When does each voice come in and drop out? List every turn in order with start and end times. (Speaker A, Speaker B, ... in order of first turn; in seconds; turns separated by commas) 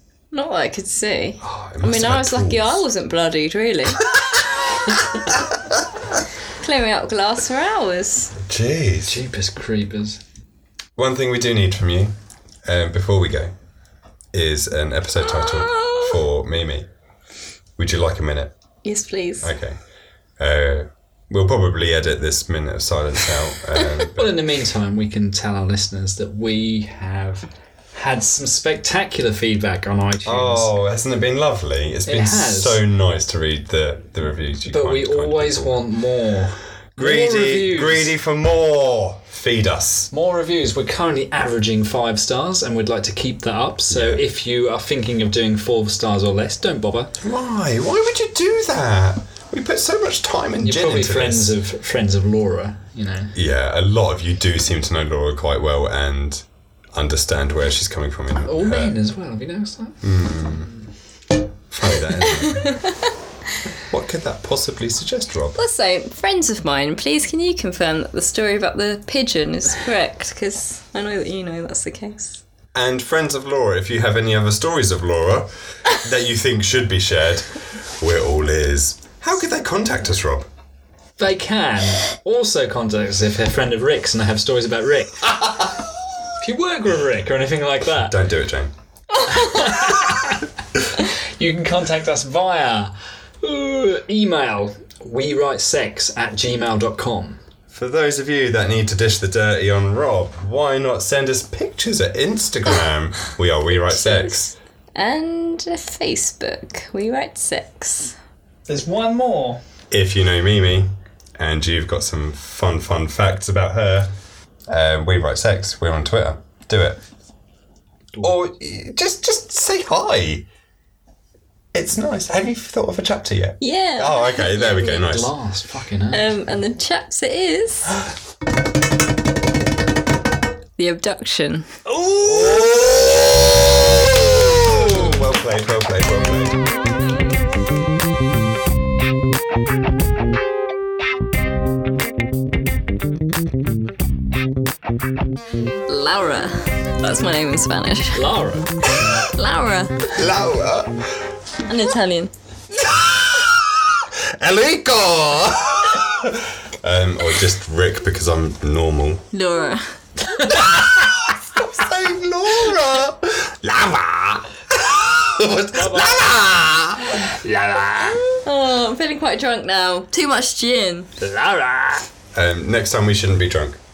Speaker A: 0.3-4.1, Speaker B: 1.4-2.8, Speaker B: 4.0-6.0, Speaker A: 6.6-8.3, Speaker B: 8.4-9.2, Speaker C: 9.1-10.2, Speaker B: 10.9-12.1, Speaker B: 12.6-13.5, Speaker B: 14.3-16.9, Speaker A: 15.2-16.2, Speaker B: 17.8-18.5, Speaker A: 18.8-19.5, Speaker B: 19.4-19.8, Speaker B: 20.4-24.4, Speaker C: 24.1-30.7, Speaker B: 30.2-35.9, Speaker C: 32.1-32.8, Speaker C: 34.7-38.1, Speaker B: 37.0-40.1, Speaker C: 40.1-47.1, Speaker B: 43.9-44.2, Speaker B: 47.2-51.5, Speaker C: 50.6-53.4, Speaker B: 53.3-59.0, Speaker C: 58.5-60.1, Speaker B: 60.0-60.7, Speaker B: 61.7-62.8, Speaker A: 62.2-63.1, Speaker B: 63.9-65.6, Speaker A: 65.5-72.4, Speaker B: 72.7-80.5, Speaker C: 81.2-85.3, Speaker C: 86.4-88.2, Speaker B: 87.8-88.7, Speaker A: 89.1-89.9, Speaker C: 89.3-90.5, Speaker C: 91.1-97.4, Speaker B: 97.7-104.5, Speaker A: 103.9-108.2, Speaker C: 108.7-109.6, Speaker B: 109.9-114.1, Speaker B: 114.7-117.0, Speaker B: 118.2-120.5, Speaker B: 121.7-125.3, Speaker A: 123.6-125.0, Speaker C: 125.0-126.3, Speaker A: 126.1-128.0, Speaker A: 130.8-131.7, Speaker C: 131.8-132.7, Speaker B: 132.2-136.6, Speaker A: 145.9-148.3, Speaker C: 148.1-148.7, Speaker A: 149.3-150.1, Speaker B: 150.1-151.1, Speaker A: 151.7-152.3, Speaker B: 152.7-159.3, Speaker A: 159.3-160.0, Speaker B: 160.4-167.2, Speaker C: 160.4-160.7, Speaker C: 165.7-166.4, Speaker C: 167.1-168.4, Speaker A: 168.4-171.1, Speaker C: 171.2-172.1, Speaker B: 172.3-173.8